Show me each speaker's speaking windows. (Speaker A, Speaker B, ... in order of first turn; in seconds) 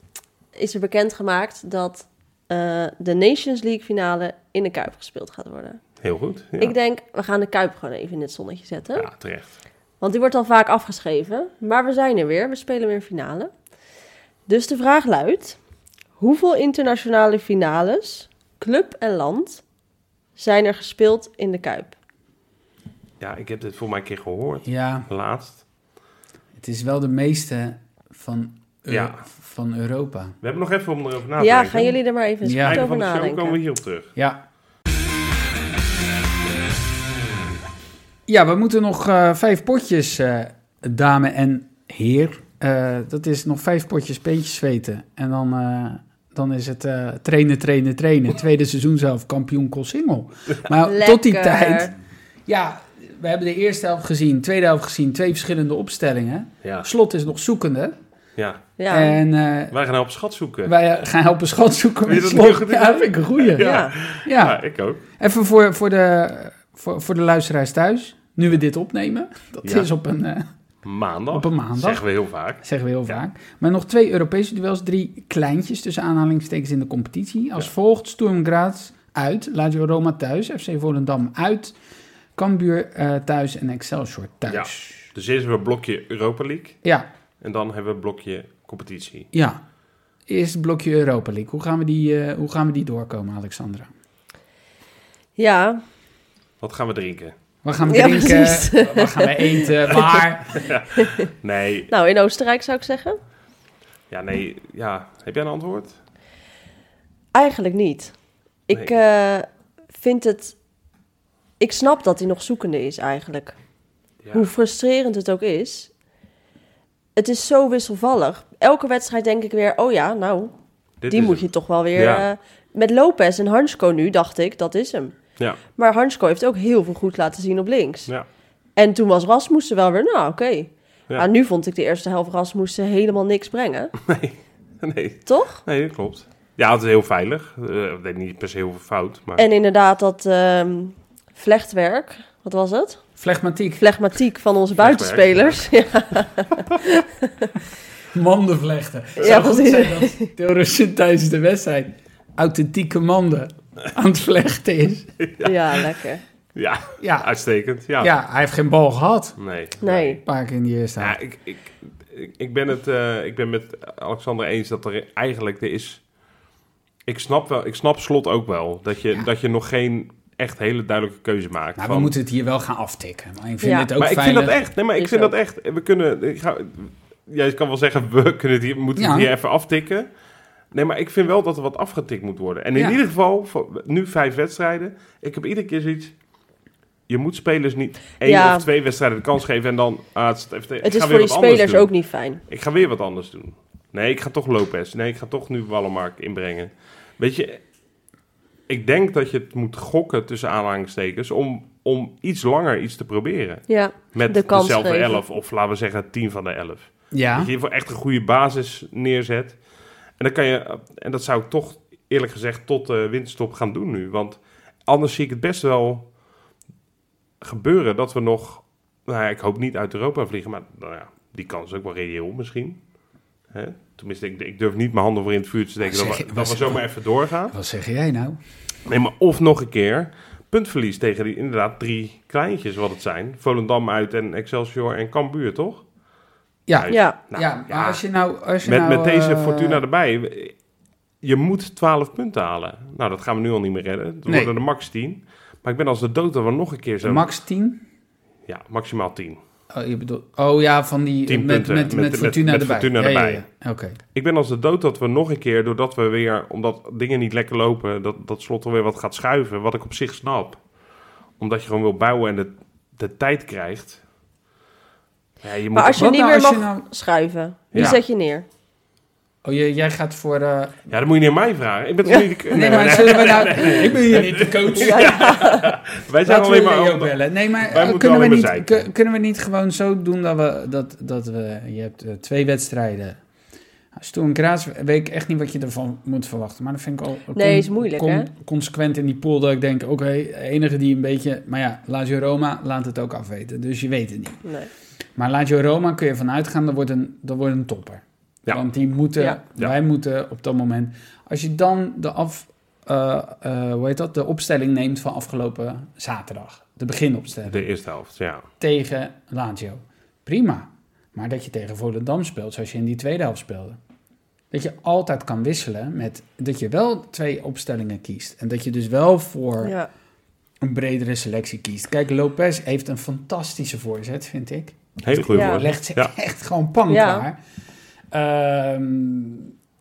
Speaker A: 0.6-5.8, 6.6-9.1, 10.0-13.5, 14.5-15.6, 16.2-19.6, 20.4-22.0, 31.4-33.6, 50.9-51.9, 58.8-59.2, 63.6-63.9, 95.4-95.8, 97.9-100.1, 101.0-101.2, 101.9-103.2, 107.3-108.2, 108.7-110.6, 111.6-113.5, 114.3-115.9, 117.2-120.5, 121.1-125.2, 125.8-128.1, 128.8-133.9, 135.3-135.6, 139.4-143.0, 143.8-147.5, 149.2-150.3, 155.4-156.2, 159.8-160.2, 173.6-173.9, 175.0-175.3, 188.2-188.7, 190.8-192.4, 203.7-205.2, 236.9-237.2, 265.7-268.4, 274.8-275.6, 287.4-288.3, 294.4-294.7, 319.6-319.9, 325.3-325.7, 326.9-327.3
Speaker B: 6.0-6.8, 9.0-9.5, 23.2-25.6, 28.9-29.2, 30.4-32.0, 32.6-34.1, 56.6-56.9, 58.4-58.6, 59.7-60.7, 62.1-65.0, 70.8-73.2, 84.5-86.8, 87.4-89.3, 96.6-97.3, 100.6-101.9, 104.1-106.0, 114.2-114.5, 121.0-122.2, 134.0-139.4, 144.8-145.7, 155.2-155.9, 156.6-158.1, 159.4-160.2, 161.0-166.0, 167.1-172.1, 174.0-180.1, 180.7-186.1, 187.1-191.9, 192.5-197.6, 198.7-209.6, 210.2-216.1, 217.4-222.8, 223.5-227.6, 228.9-235.8, 236.8-238.0, 238.6-240.6, 241.2-247.3, 248.5-249.4, 251.3-253.4, 254.2-260.6, 261.4-264.0, 265.4-266.1, 267.7-268.0, 270.9-278.9, 307.5-308.4, 325.0-326.1
Speaker C: 24.7-25.1, 26.6-30.4, 32.4-32.8, 38.3-51.9, 52.5-58.0, 58.9-59.8, 60.6-63.7, 64.2-64.6, 65.2-70.5, 71.3-72.0, 72.6-81.8, 82.4-85.1, 89.3-89.6, 90.3-93.9, 97.6-100.7, 143.2-143.8, 148.1-155.1, 157.0-157.3, 158.0-159.4, 160.2-161.2, 171.8-174.6, 179.0-179.3, 182.8-183.0, 207.1-207.5, 225.8-226.8, 227.5-228.4, 236.7-239.8, 244.3-244.5, 247.0-247.8, 249.7-254.0, 265.9-266.9, 269.4-270.8, 272.5-275.4, 276.3-283.2, 283.9-294.4, 295.2-307.6, 308.6-313.8, 314.5-319.8, 320.6-327.4, 328.1-329.5